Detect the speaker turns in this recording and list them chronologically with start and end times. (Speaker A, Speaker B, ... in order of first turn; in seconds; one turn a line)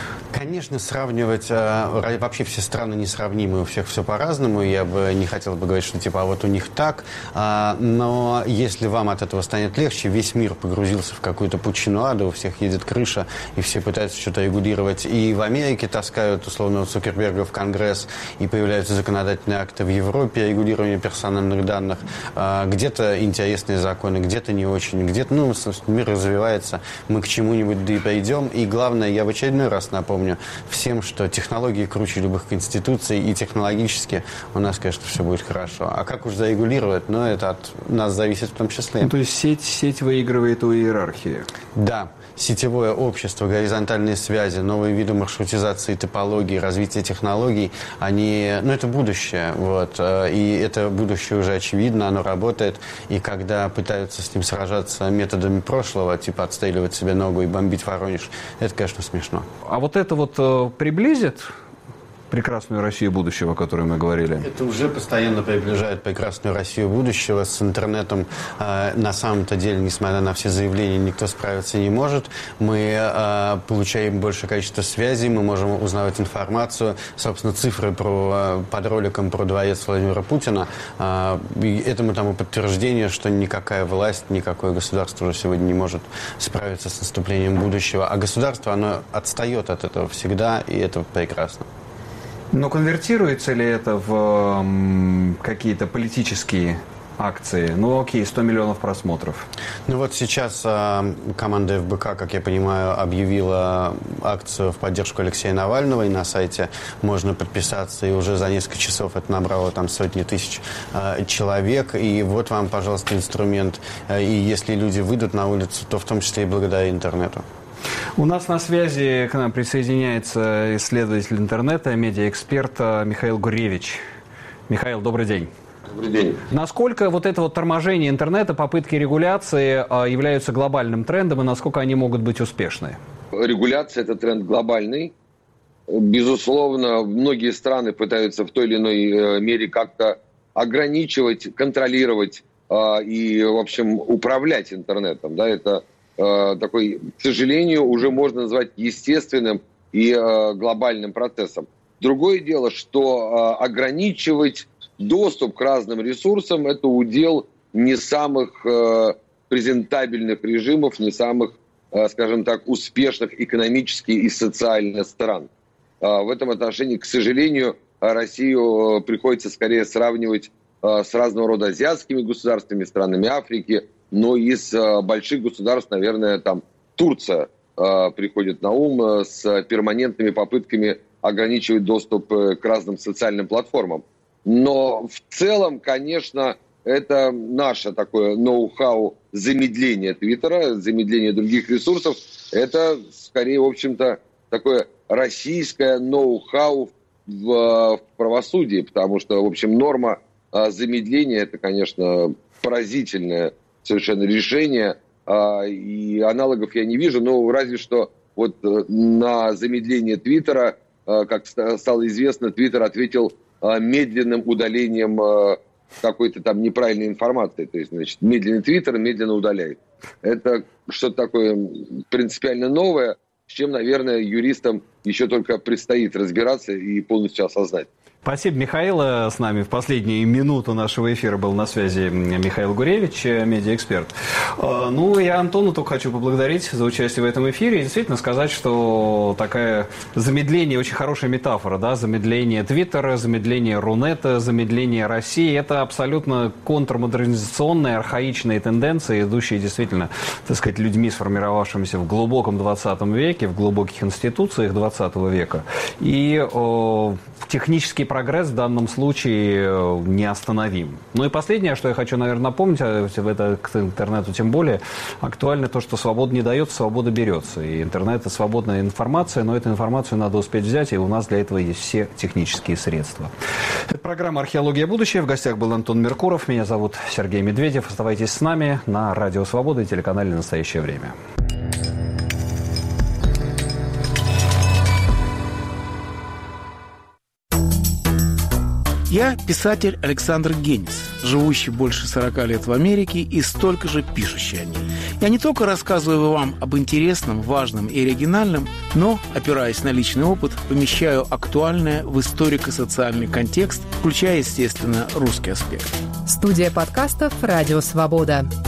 Speaker A: 0.3-39.1
Speaker B: 39.0-41.5
Speaker A: 41.7-59.5
Speaker B: 59.6-61.5
Speaker B: 62.3-64.5
Speaker A: 64.4-91.6
Speaker B: 92.5-99.5
Speaker A: 99.9-117.4
Speaker B: 118.2-124.0
Speaker B: 124.7-125.5
Speaker C: 126.0-126.3
Speaker B: 126.5-133.0
Speaker C: 133.3-135.1
Speaker C: 135.9-165.5
Speaker C: 166.0-227.9
Speaker B: 228.2-273.3
Speaker B: 273.9-281.1
Speaker D: 289.1-305.9
Speaker E: 306.2-308.5